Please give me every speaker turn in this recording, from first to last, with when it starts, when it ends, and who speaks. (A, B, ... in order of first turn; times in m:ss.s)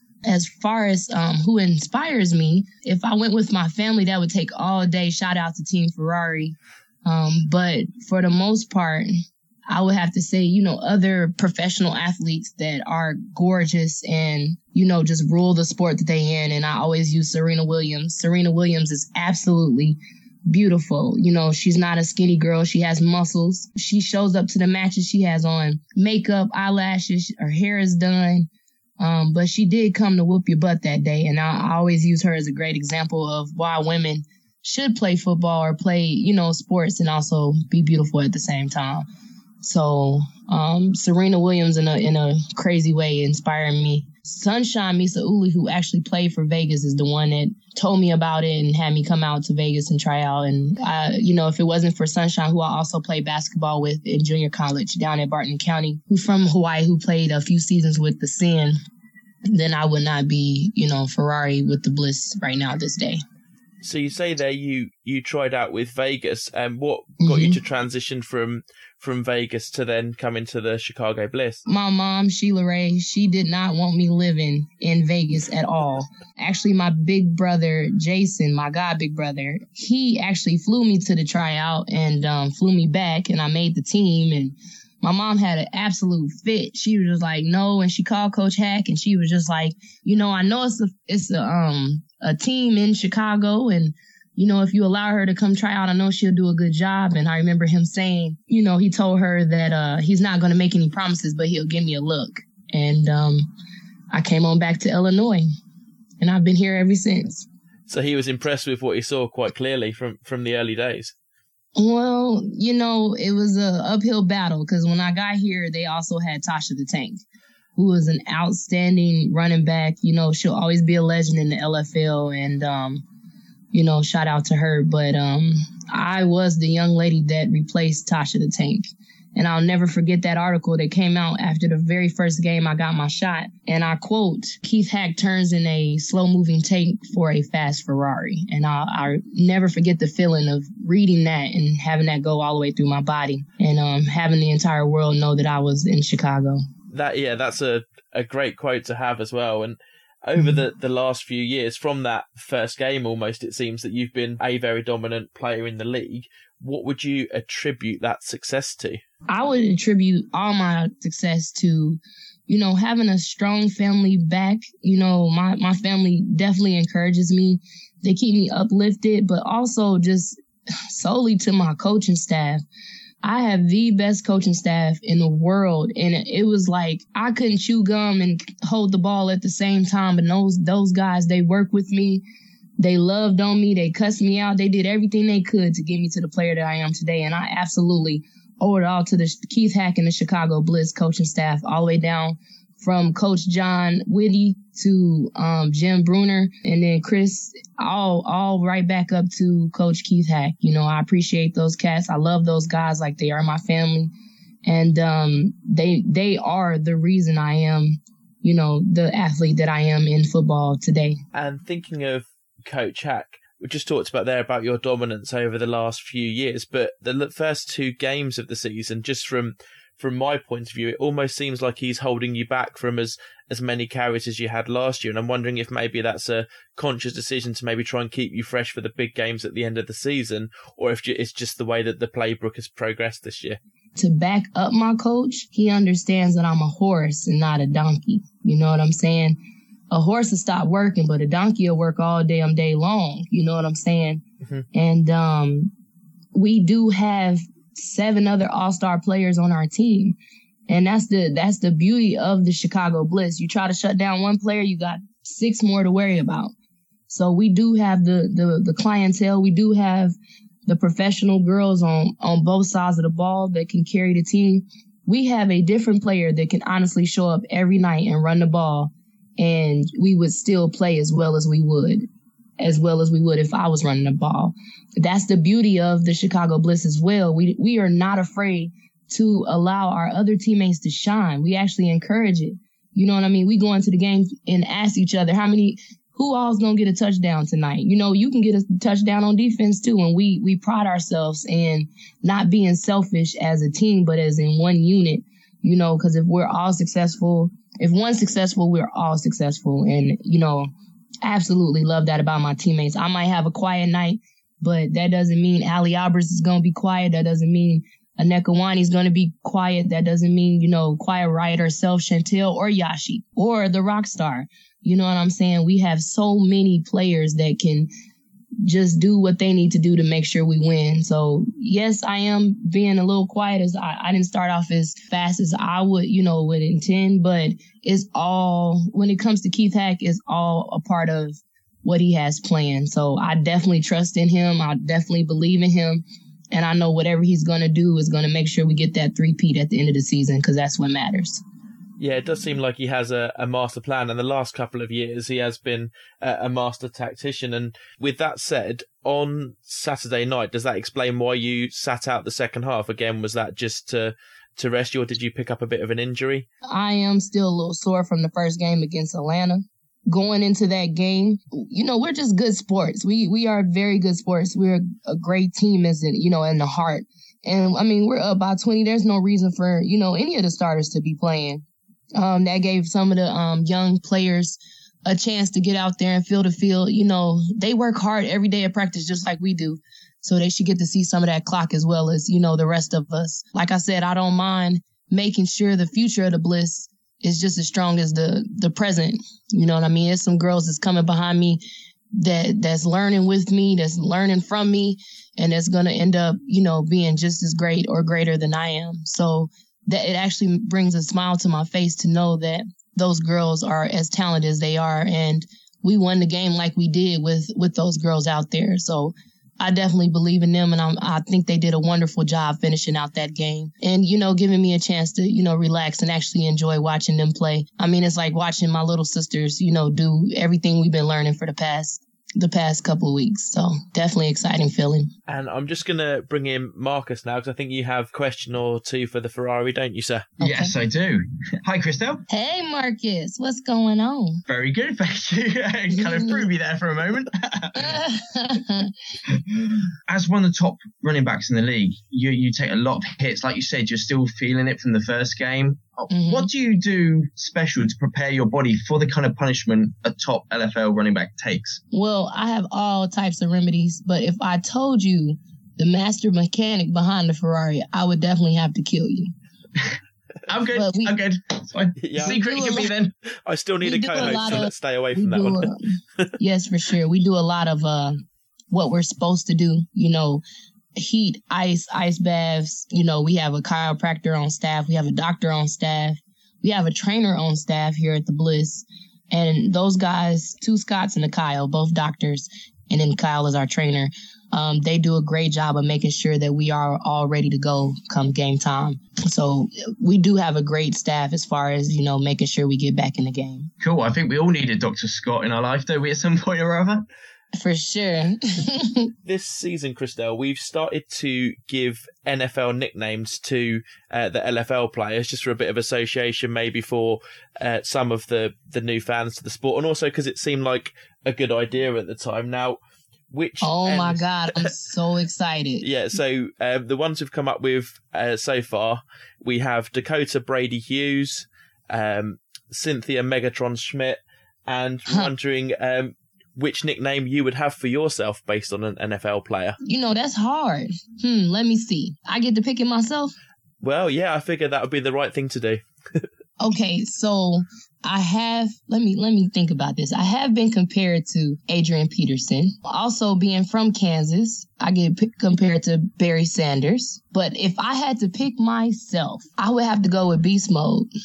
0:00.2-0:09.1 A
0:09.7-0:28.5 A
0:29.0-0:39.0 A
0:39.6-0:58.8 A
0:59.5-1:03.2 A
1:03.8-1:11.6 B
1:07.2-1:07.6 A
1:11.6-1:43.5 A
1:44.1-1:45.4 A
1:46.2-1:47.5 A
1:47.9-1:51.1 B
1:51.8-1:57.2 A
1:57.8-2:03.0 A
2:03.7-2:08.8 A
2:09.4-2:26.6 A
2:26.9-2:39.0 B
2:39.3-2:50.4 A
2:50.9-2:52.6 A
2:53.2-3:02.2 A
3:02.8-3:24.1 A
3:24.6-3:31.2 A
3:31.3-3:53.6 B
3:54.0-3:59.4 A
3:59.9-4:04.2 A
4:04.7-4:05.7 A
4:06.3-4:10.2 A
4:10.7-4:16.5 A
4:17.1-4:20.1 A
4:20.6-4:32.0 A
4:32.6-5:00.7 A
5:01.2-5:17.9 A
5:18.6-5:41.4 A
5:42.0-5:56.5 B
5:56.6-6:11.6 A
6:12.2-6:31.6 A
6:32.2-7:05.1 A
7:05.3-7:10.3 B
7:10.4-7:10.7 A
7:10.4-7:12.2 C
7:12.3-7:14.4 A
7:14.5-7:18.0 C
7:16.0-7:16.3 A
7:17.8-7:18.9 A
7:19.5-7:31.8 C
7:26.1-7:26.5 A
7:31.9-7:39.3 A
7:40.5-7:43.1 C
7:40.7-7:41.1 A
7:42.0-7:42.4 B
7:42.2-7:42.9 A
7:43.4-7:46.2 B
7:43.8-7:48.2 A
7:48.7-7:50.4 A
7:51.0-8:13.7 A
8:13.8-8:17.0 C
8:17.6-8:19.1 A
8:19.2-8:32.8 B
8:33.3-8:34.7 B
8:33.6-8:35.9 A
8:35.8-8:49.8 B
8:49.8-8:53.3 A
8:53.8-8:56.3 B
8:56.6-9:11.1 A